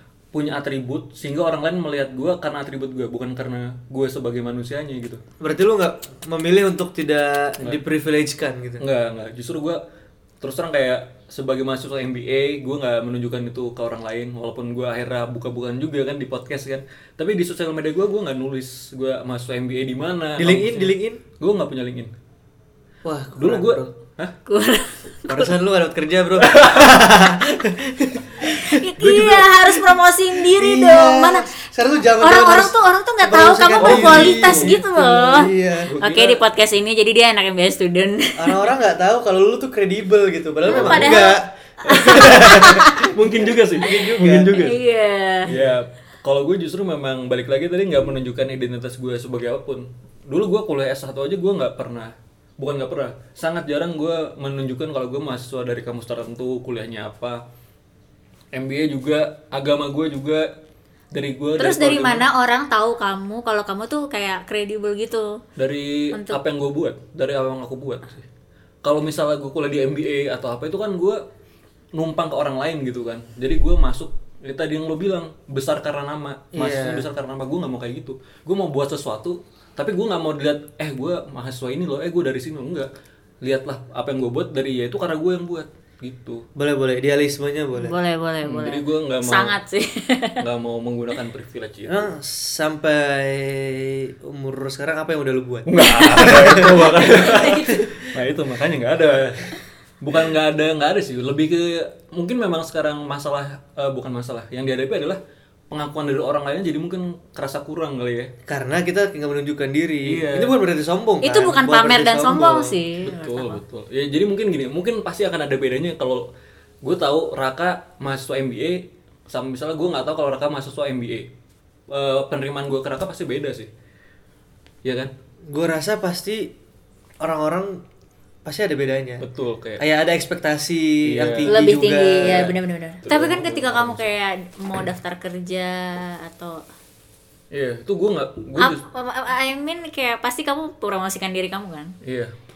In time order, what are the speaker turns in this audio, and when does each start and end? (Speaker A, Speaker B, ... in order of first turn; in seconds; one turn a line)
Speaker A: 0.3-5.2
Speaker B: 5.4-8.8
Speaker A: 8.8-9.8
Speaker A: 10.4-22.1
Speaker B: 20.4-21.2
Speaker B: 23.1-23.9
Speaker A: 23.4-24.3
Speaker C: 24.5-25.5
Speaker B: 25.3-29.4
Speaker A: 26.4-26.9
Speaker C: 28.4-31.6
Speaker A: 29.0-29.6
Speaker B: 30.4-35.9
Speaker C: 32.2-38.7
Speaker A: 33.8-34.8
Speaker A: 35.9-36.4
Speaker B: 38.4-44.6
Speaker A: 40.7-41.2
Speaker C: 40.7-43.1
Speaker A: 41.9-44.8
Speaker C: 44.5-45.5
Speaker A: 45.5-57.4
Speaker B: 45.5-45.8
Speaker A: 58.5-60.5
Speaker A: 61.1-62.3
Speaker C: 61.6-65.4
Speaker A: 65.6-68.2
Speaker C: 66.1-66.4
Speaker A: 68.8-71.2
Speaker A: 72.0-82.9
Speaker B: 76.5-77.1
Speaker A: 83.4-86.4
Speaker B: 86.6-88.0
Speaker C: 87.8-90.4
Speaker A: 88.4-89.6
Speaker A: 90.4-92.1
Speaker B: 91.9-97.0
Speaker A: 95.7-105.2
Speaker C: 97.1-97.8
Speaker A: 105.7-108.3
Speaker B: 108.5-112.8
Speaker A: 110.1-110.6
Speaker C: 111.2-113.6
Speaker A: 113.0-116.2
Speaker A: 116.8-121.3
Speaker A: 121.9-123.7
Speaker A: 124.8-125.1
Speaker B: 125.5-126.5
Speaker B: 127.2-127.8
Speaker B: 128.4-129.2
Speaker A: 129.2-129.8
Speaker B: 129.8-132.5
Speaker A: 131.1-131.5
Speaker C: 131.5-136.6
Speaker A: 132.2-134.1
Speaker A: 137.5-138.8
Speaker C: 138.6-141.9
Speaker A: 142.0-142.3